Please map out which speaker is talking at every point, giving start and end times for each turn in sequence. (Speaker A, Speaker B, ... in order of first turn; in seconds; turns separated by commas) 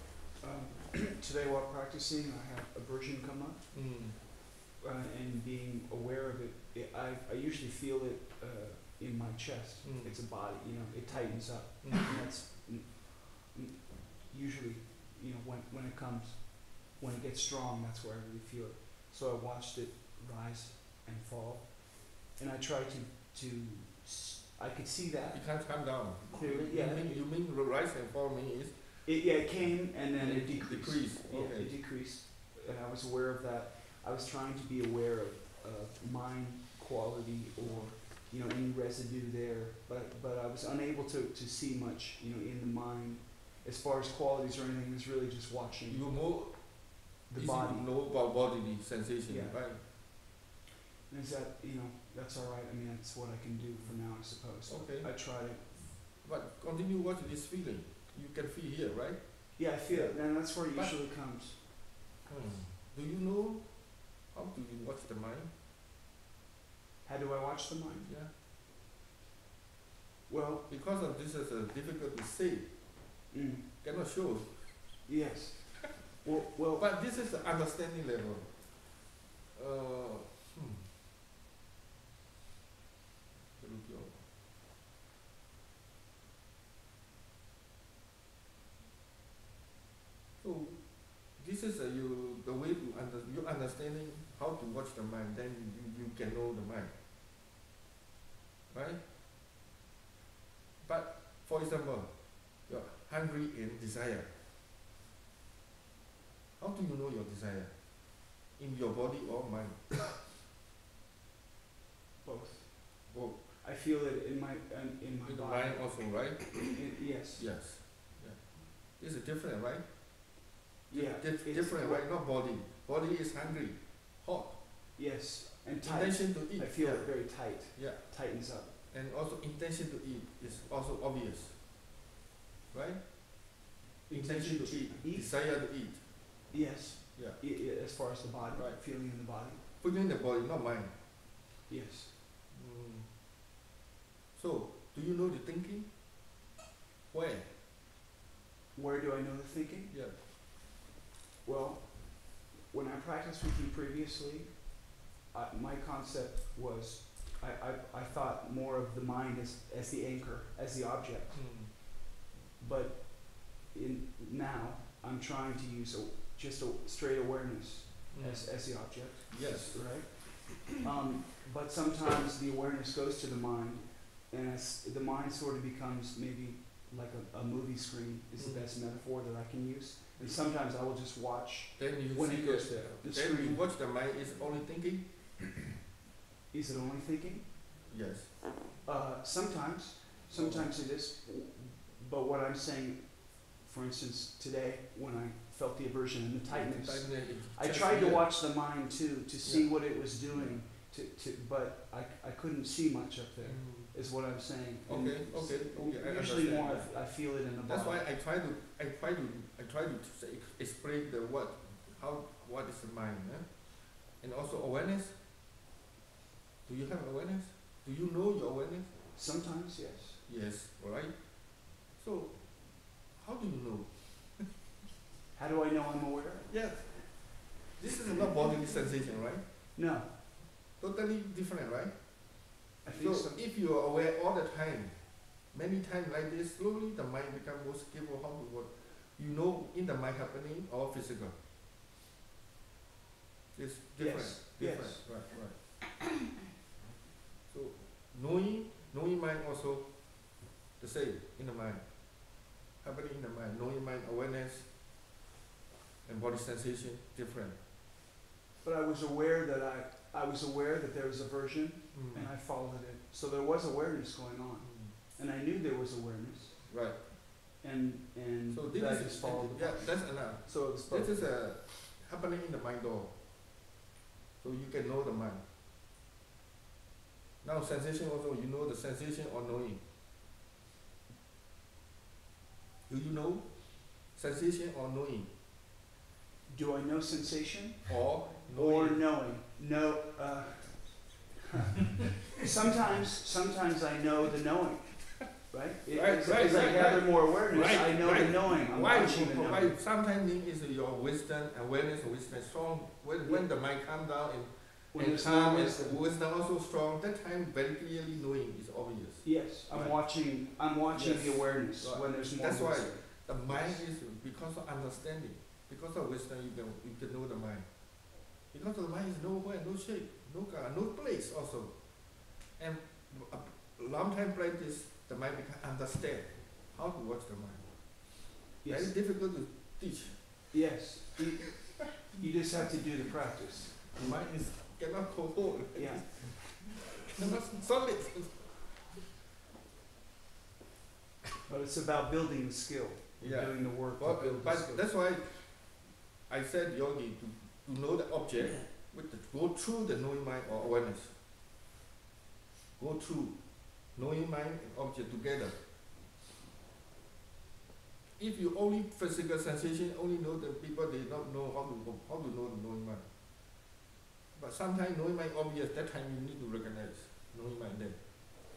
Speaker A: 0.4-27.2, Speaker B: 3.7-4.2, Speaker B: 9.8-10.2, Speaker B: 11.1-12.2, Speaker B: 25.3-31.7, Speaker A: 29.0-46.5, Speaker B: 37.6-37.9, Speaker B: 45.9-49.8, Speaker A: 47.3-47.9, Speaker A: 49.3-50.2, Speaker A: 51.1-56.0, Speaker B: 53.9-55.1, Speaker B: 55.6-61.0, Speaker A: 59.5-61.6, Speaker B: 62.2-65.5, Speaker A: 67.0-68.1, Speaker B: 68.0-68.3, Speaker A: 70.3-70.7, Speaker B: 70.7-73.3, Speaker A: 73.3-73.7, Speaker B: 73.8-75.1, Speaker A: 75.0-76.9, Speaker B: 76.8-80.9, Speaker B: 83.5-84.3, Speaker B: 90.4-96.9, Speaker B: 98.7-99.0, Speaker B: 100.8-104.3, Speaker B: 106.6-110.0, Speaker A: 112.2-117.6, Speaker B: 113.1-113.4, Speaker B: 115.2-116.8, Speaker B: 117.3-124.6, Speaker A: 120.9-122.1, Speaker A: 125.0-128.7, Speaker B: 125.8-128.1, Speaker B: 128.8-131.6, Speaker B: 132.7-136.5, Speaker A: 134.1-135.8, Speaker A: 136.5-139.6, Speaker B: 137.1-137.4, Speaker B: 138.5-138.8, Speaker B: 139.7-141.3, Speaker A: 141.7-142.1, Speaker B: 142.5-143.1, Speaker B: 144.3-145.9, Speaker B: 147.1-147.5, Speaker A: 148.7-149.9, Speaker B: 149.9-150.2, Speaker A: 151.4-161.8, Speaker B: 161.3-161.7, Speaker A: 162.6-183.6, Speaker B: 168.1-170.2, Speaker B: 178.4-178.6, Speaker B: 181.8-185.1, Speaker A: 186.5-187.7, Speaker B: 187.9-188.4, Speaker A: 188.8-208.0, Speaker B: 190.3-190.7, Speaker B: 196.4-198.3, Speaker B: 199.4-200.5, Speaker B: 203.4-204.1, Speaker B: 204.8-215.2, Speaker B: 216.7-218.9, Speaker A: 219.1-220.2, Speaker B: 220.2-224.5, Speaker A: 225.3-226.7, Speaker B: 226.5-229.4, Speaker A: 229.7-230.1, Speaker B: 230.7-241.3, Speaker A: 232.8-233.4, Speaker B: 243.5-245.6, Speaker A: 244.0-245.4, Speaker B: 247.5-254.7, Speaker B: 256.0-257.6, Speaker A: 258.6-266.9, Speaker B: 261.9-262.3, Speaker B: 264.6-264.9, Speaker B: 266.7-267.0, Speaker A: 267.5-271.7, Speaker B: 268.5-273.1, Speaker B: 274.4-275.4, Speaker B: 277.4-279.8, Speaker B: 282.9-285.3, Speaker A: 286.5-291.3, Speaker B: 287.9-289.1, Speaker A: 292.4-299.8, Speaker B: 295.9-310.2, Speaker A: 304.9-306.0, Speaker A: 309.2-313.8, Speaker B: 310.9-330.5, Speaker A: 328.6-329.5, Speaker A: 330.5-334.5, Speaker B: 333.9-338.6, Speaker A: 335.7-337.4, Speaker A: 341.5-345.1, Speaker B: 343.2-351.1, Speaker B: 352.8-355.6, Speaker B: 358.2-363.1, Speaker B: 364.3-368.0